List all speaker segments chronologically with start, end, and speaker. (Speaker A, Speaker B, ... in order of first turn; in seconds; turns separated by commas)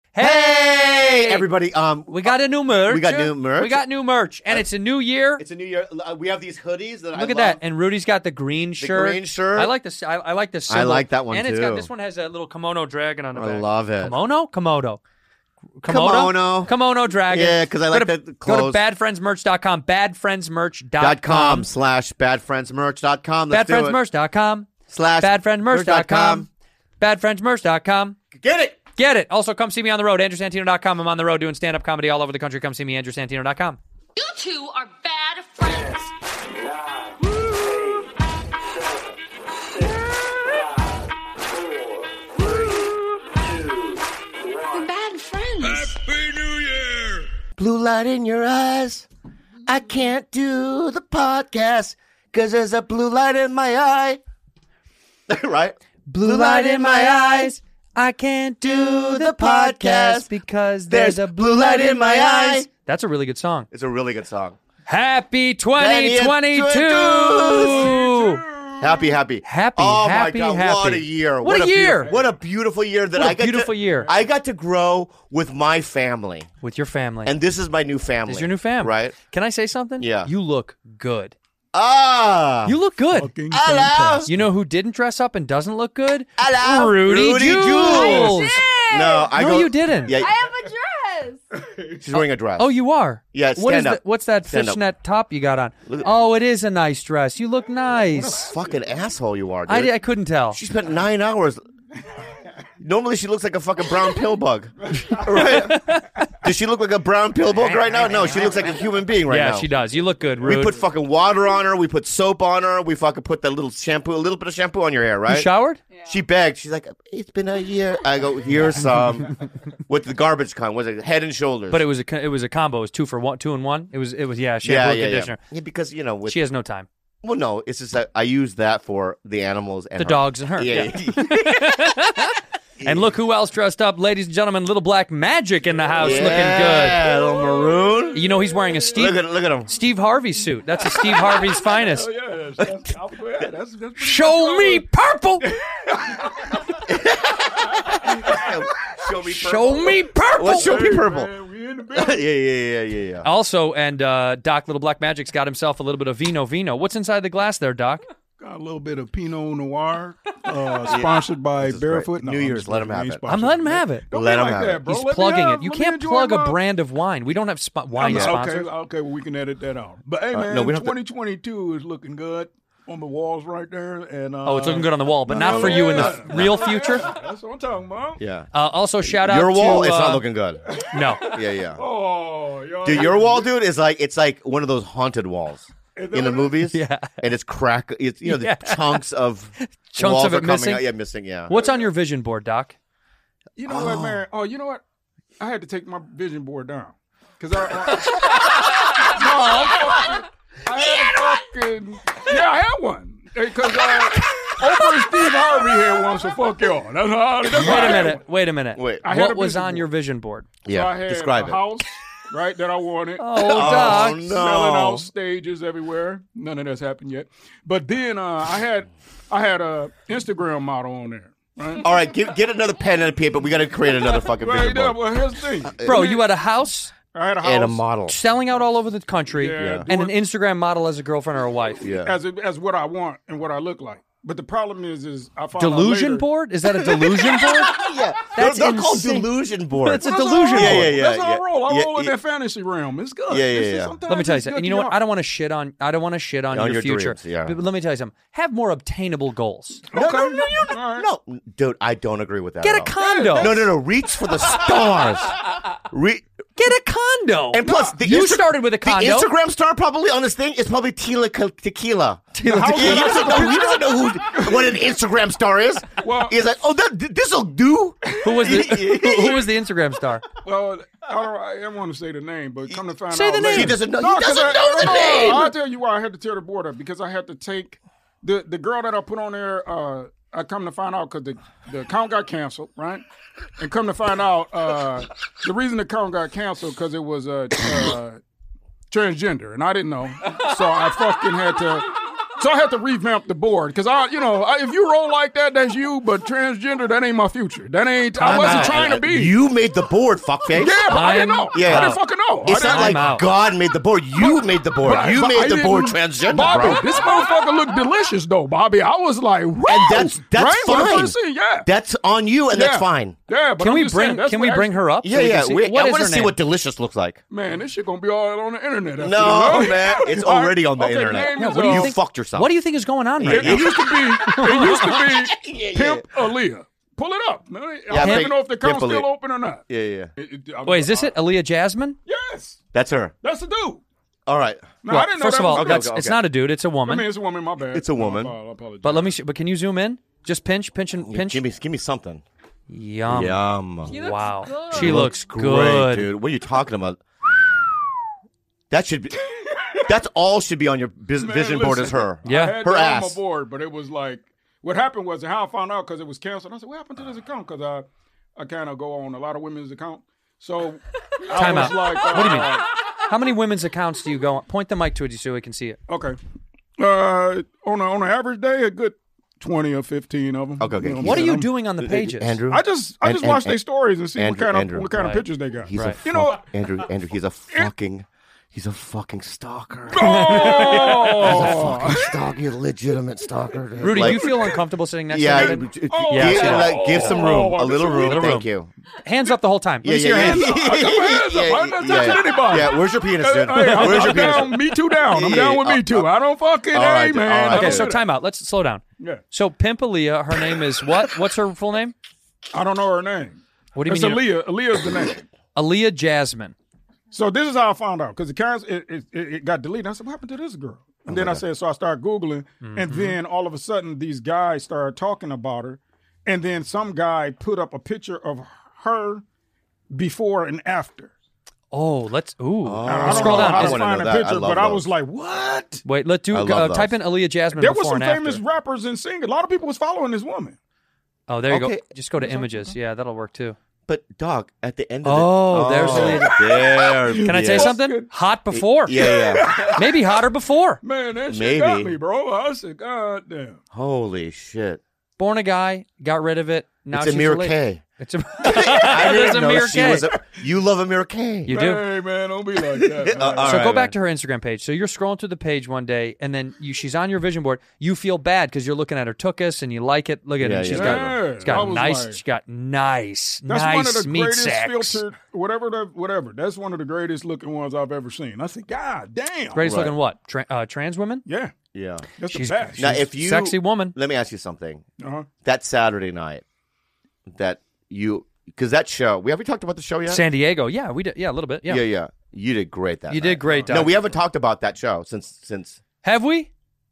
Speaker A: 0.1-1.5, Speaker B: 0.2-3.8, Speaker A: 2.1-5.4, Speaker B: 5.4-7.6, Speaker A: 7.1-15.0, Speaker B: 8.8-9.7, Speaker B: 10.7-11.9, Speaker B: 13.3-14.2, Speaker A: 15.8-21.7, Speaker B: 15.9-16.7, Speaker B: 17.3-18.8, Speaker B: 21.0-24.0, Speaker A: 23.5-26.5, Speaker B: 24.9-26.5, Speaker A: 27.0-28.2, Speaker B: 28.3-28.8, Speaker A: 29.0-33.8, Speaker C: 34.2-36.1, Speaker C: 44.7-45.9, Speaker D: 45.6-47.2, Speaker B: 47.6-49.1, Speaker B: 49.7-54.2, Speaker B: 55.3-57.5, Speaker A: 56.1-63.7, Speaker B: 58.6-60.3, Speaker B: 60.9-62.7, Speaker B: 63.7-64.6, Speaker A: 64.9-68.5, Speaker B: 65.8-67.9, Speaker D: 67.6-68.9, Speaker B: 68.8-76.5, Speaker A: 69.5-72.1, Speaker A: 73.2-74.1, Speaker A: 76.6-77.3, Speaker B: 77.2-79.2, Speaker A: 78.2-81.3, Speaker B: 80.0-80.3, Speaker B: 81.7-82.8, Speaker A: 82.7-83.3, Speaker D: 83.1-84.5, Speaker B: 83.5-84.3, Speaker A: 84.2-88.6, Speaker B: 86.4-90.4, Speaker E: 87.7-89.3, Speaker A: 89.3-90.2, Speaker E: 90.1-91.4, Speaker B: 92.0-92.7, Speaker A: 92.6-98.5, Speaker B: 93.3-94.8, Speaker B: 98.0-99.9, Speaker A: 99.7-100.6, Speaker B: 100.5-101.6, Speaker B: 102.8-109.7, Speaker A: 105.5-106.2, Speaker A: 107.5-108.8, Speaker A: 109.3-110.8, Speaker B: 110.4-115.5, Speaker A: 115.3-115.8, Speaker E: 115.9-116.2, Speaker B: 116.0-121.8, Speaker A: 121.7-125.4, Speaker B: 124.6-126.4, Speaker A: 126.3-126.9, Speaker B: 127.2-131.9, Speaker A: 130.0-137.1, Speaker B: 132.8-133.1, Speaker B: 136.0-138.4, Speaker A: 138.1-142.1, Speaker B: 138.9-139.7, Speaker D: 141.0-144.8, Speaker A: 144.0-145.6, Speaker D: 145.4-146.6, Speaker B: 146.9-151.3, Speaker D: 148.2-148.5, Speaker A: 149.2-150.8, Speaker D: 149.9-152.2, Speaker B: 151.9-153.3, Speaker A: 153.2-158.0, Speaker D: 158.4-166.6, Speaker B: 160.8-163.2, Speaker A: 163.3-164.1, Speaker B: 164.1-164.9, Speaker A: 164.8-168.7, Speaker D: 168.0-178.2, Speaker B: 168.0-168.4, Speaker B: 170.3-171.0, Speaker A: 174.4-177.2, Speaker B: 175.3-176.7, Speaker B: 178.2-178.5, Speaker A: 178.5-180.2, Speaker B: 179.0-180.6, Speaker D: 180.7-183.5, Speaker A: 180.9-181.4, Speaker B: 181.2-181.8, Speaker B: 182.8-191.6, Speaker D: 185.9-186.6, Speaker A: 186.7-187.1, Speaker A: 188.2-189.0, Speaker A: 189.6-190.9, Speaker A: 191.5-192.8, Speaker D: 193.6-194.8, Speaker B: 193.7-194.2, Speaker D: 195.4-208.2, Speaker A: 207.5-210.5, Speaker B: 207.7-208.1, Speaker B: 208.8-209.1, Speaker D: 209.0-209.9, Speaker B: 210.6-211.6, Speaker D: 210.7-221.9, Speaker A: 213.2-214.2, Speaker B: 213.3-215.1, Speaker B: 221.8-225.0, Speaker D: 224.2-226.2, Speaker B: 225.6-226.1, Speaker A: 225.8-226.9, Speaker D: 227.1-227.8, Speaker B: 227.4-228.2, Speaker A: 228.1-231.8, Speaker D: 229.3-230.1, Speaker B: 229.6-229.9, Speaker B: 231.8-232.2, Speaker D: 232.0-236.2, Speaker A: 235.6-240.9, Speaker B: 236.7-242.1, Speaker D: 240.0-245.0, Speaker B: 243.3-244.0, Speaker A: 244.1-249.8, Speaker B: 246.5-247.6, Speaker D: 249.9-251.1, Speaker B: 249.9-256.2, Speaker A: 252.6-253.6, Speaker D: 253.0-253.6, Speaker A: 256.6-259.3, Speaker B: 257.5-269.5, Speaker A: 262.4-263.5, Speaker D: 262.4-264.8, Speaker D: 266.0-266.4, Speaker A: 268.2-270.2, Speaker D: 268.3-268.6, Speaker D: 270.4-283.0, Speaker A: 273.1-273.8, Speaker B: 273.4-275.5, Speaker D: 283.6-288.2, Speaker D: 288.9-299.3, Speaker A: 298.2-298.8, Speaker B: 298.2-300.9, Speaker D: 300.5-303.0, Speaker A: 300.9-303.2, Speaker B: 301.5-306.8, Speaker D: 304.2-311.7, Speaker B: 309.6-313.2, Speaker D: 312.5-314.8, Speaker A: 313.6-316.4, Speaker B: 315.0-317.2, Speaker D: 317.3-321.9, Speaker B: 319.0-322.5, Speaker A: 321.3-325.2, Speaker B: 323.2-324.4, Speaker D: 323.2-329.6, Speaker B: 325.3-326.1, Speaker B: 327.9-329.1, Speaker A: 327.9-328.3, Speaker B: 329.7-330.1, Speaker D: 330.2-331.1, Speaker A: 330.6-332.0, Speaker D: 332.1-332.6, Speaker B: 332.7-333.1, Speaker D: 333.2-333.8, Speaker B: 334.2-334.8, Speaker D: 334.8-335.9, Speaker A: 334.9-337.1, Speaker B: 335.5-336.2, Speaker D: 336.9-339.2, Speaker B: 337.7-338.3, Speaker A: 338.8-341.4, Speaker B: 341.0-342.2, Speaker A: 342.7-346.1, Speaker B: 343.1-343.9, Speaker E: 343.9-345.2, Speaker B: 344.7-347.5, Speaker B: 348.7-349.2, Speaker B: 349.8-353.2, Speaker D: 351.1-362.7, Speaker A: 352.2-352.6, Speaker A: 361.3-365.8, Speaker D: 365.9-366.2, Speaker D: 366.8-371.5, Speaker B: 370.6-371.3, Speaker A: 371.0-372.4, Speaker B: 371.8-373.6, Speaker D: 372.5-376.5, Speaker B: 374.1-375.0, Speaker A: 374.9-376.0, Speaker B: 375.6-384.5, Speaker D: 379.9-382.1, Speaker A: 380.0-381.6, Speaker A: 383.8-387.2, Speaker D: 383.8-384.5, Speaker B: 385.1-388.7, Speaker D: 385.3-388.4, Speaker A: 387.9-388.5, Speaker A: 389.0-390.6, Speaker B: 389.8-396.1, Speaker D: 390.1-398.0, Speaker A: 393.5-394.4, Speaker B: 396.7-397.9, Speaker A: 397.5-401.9, Speaker D: 402.5-405.2, Speaker A: 403.8-404.2, Speaker A: 405.5-406.5, Speaker D: 407.1-419.2, Speaker B: 411.1-411.4, Speaker A: 412.6-413.2, Speaker D: 419.9-421.1, Speaker A: 421.7-423.8, Speaker B: 422.6-424.9, Speaker D: 422.8-425.8, Speaker A: 425.8-428.4, Speaker B: 426.3-426.9, Speaker D: 427.6-430.6, Speaker A: 431.3-433.6, Speaker B: 431.5-431.8, Speaker D: 432.2-432.7, Speaker B: 433.9-437.8, Speaker A: 435.0-436.4, Speaker D: 435.8-438.1, Speaker A: 437.2-439.1, Speaker B: 438.5-439.7, Speaker D: 438.9-440.1, Speaker A: 439.7-440.8, Speaker D: 440.8-443.6, Speaker B: 441.2-441.9, Speaker B: 443.7-444.8, Speaker A: 445.2-450.1, Speaker B: 446.9-447.8, Speaker B: 448.4-451.6, Speaker A: 451.4-451.9, Speaker D: 451.5-453.6, Speaker B: 452.8-453.9, Speaker A: 453.4-465.0, Speaker B: 460.4-461.7, Speaker D: 460.7-462.2, Speaker D: 463.5-469.7, Speaker A: 469.5-471.2, Speaker B: 469.6-469.9, Speaker D: 471.2-471.5, Speaker B: 471.7-472.1, Speaker D: 472.2-473.0, Speaker A: 472.3-473.9, Speaker B: 472.8-474.8, Speaker D: 475.0-475.3, Speaker B: 475.4-476.4, Speaker B: 477.3-480.2, Speaker A: 480.1-481.8, Speaker B: 481.6-485.8, Speaker A: 483.1-483.9, Speaker D: 483.5-483.8, Speaker A: 486.0-486.5